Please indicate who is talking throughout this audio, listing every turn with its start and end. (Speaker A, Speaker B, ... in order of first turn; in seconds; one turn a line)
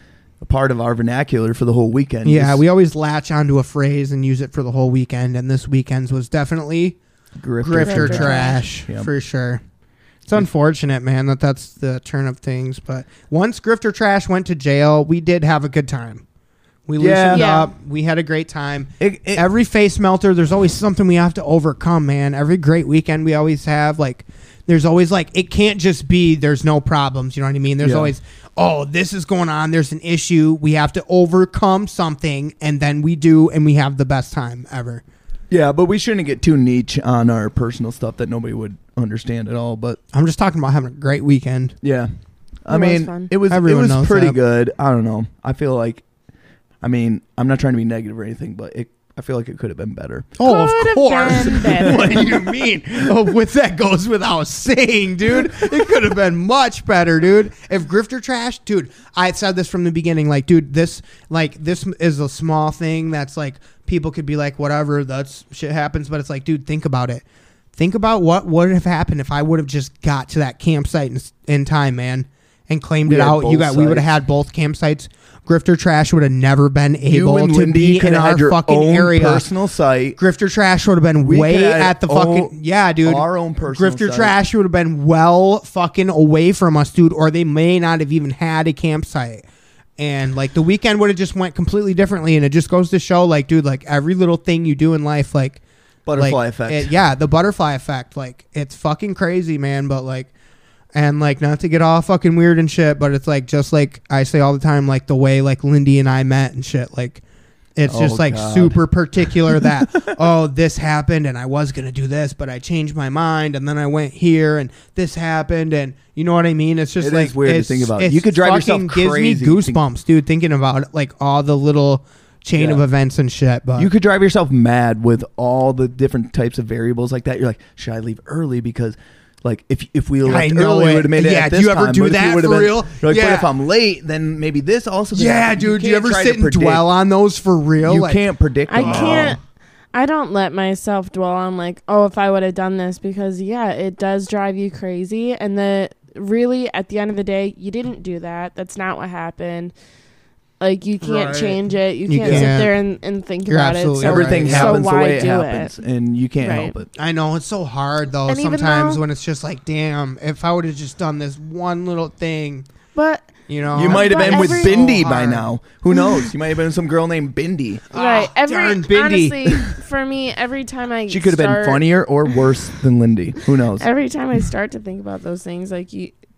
Speaker A: 0.4-2.6
Speaker B: 2.2-7.0
Speaker A: 7.4-9.1
Speaker B: 7.6-9.6
Speaker C: 7.8-8.6
Speaker B: 10.3-16.2
Speaker B: 16.9-35.0
Speaker A: 17.0-17.5
Speaker C: 17.3-17.7
Speaker A: 19.0-19.4
Speaker A: 27.8-28.1
Speaker A: 35.5-40.0
Speaker B: 40.1-41.8
Speaker A: 41.8-42.1
Speaker A: 42.6-46.0
Speaker C: 42.7-43.3
Speaker B: 43.5-44.4
Speaker A: 46.8-50.4
Speaker B: 50.4-67.2
Speaker C: 50.4-52.3
Speaker A: 51.8-53.0
Speaker B: 67.8-79.5
Speaker A: 73.1-74.1
Speaker A: 77.0-80.2
Speaker B: 80.2-89.5
Speaker A: 81.2-84.3
Speaker B: 90.0-95.6
Speaker A: 96.1-96.9
Speaker B: 96.2-100.3
Speaker B: 100.9-107.2
Speaker B: 107.8-123.9
Speaker A: 107.9-110.1
Speaker A: 117.0-119.8
Speaker A: 122.5-122.8
Speaker A: 123.8-136.9
Speaker B: 130.2-133.5
Speaker B: 135.1-138.2
Speaker A: 137.8-139.4
Speaker C: 138.7-139.4
Speaker B: 138.8-139.3
Speaker C: 139.9-149.7
Speaker C: 150.6-155.7
Speaker B: 151.0-152.8
Speaker A: 152.2-152.5
Speaker B: 153.5-154.8
Speaker A: 154.0-156.9
Speaker C: 156.4-156.7
Speaker B: 156.9-162.7
Speaker C: 158.3-159.0
Speaker C: 162.9-164.8
Speaker B: 163.5-165.5
Speaker A: 163.8-167.8
Speaker B: 167.9-169.6
Speaker C: 167.9-171.8
Speaker A: 171.1-173.9
Speaker C: 173.8-176.1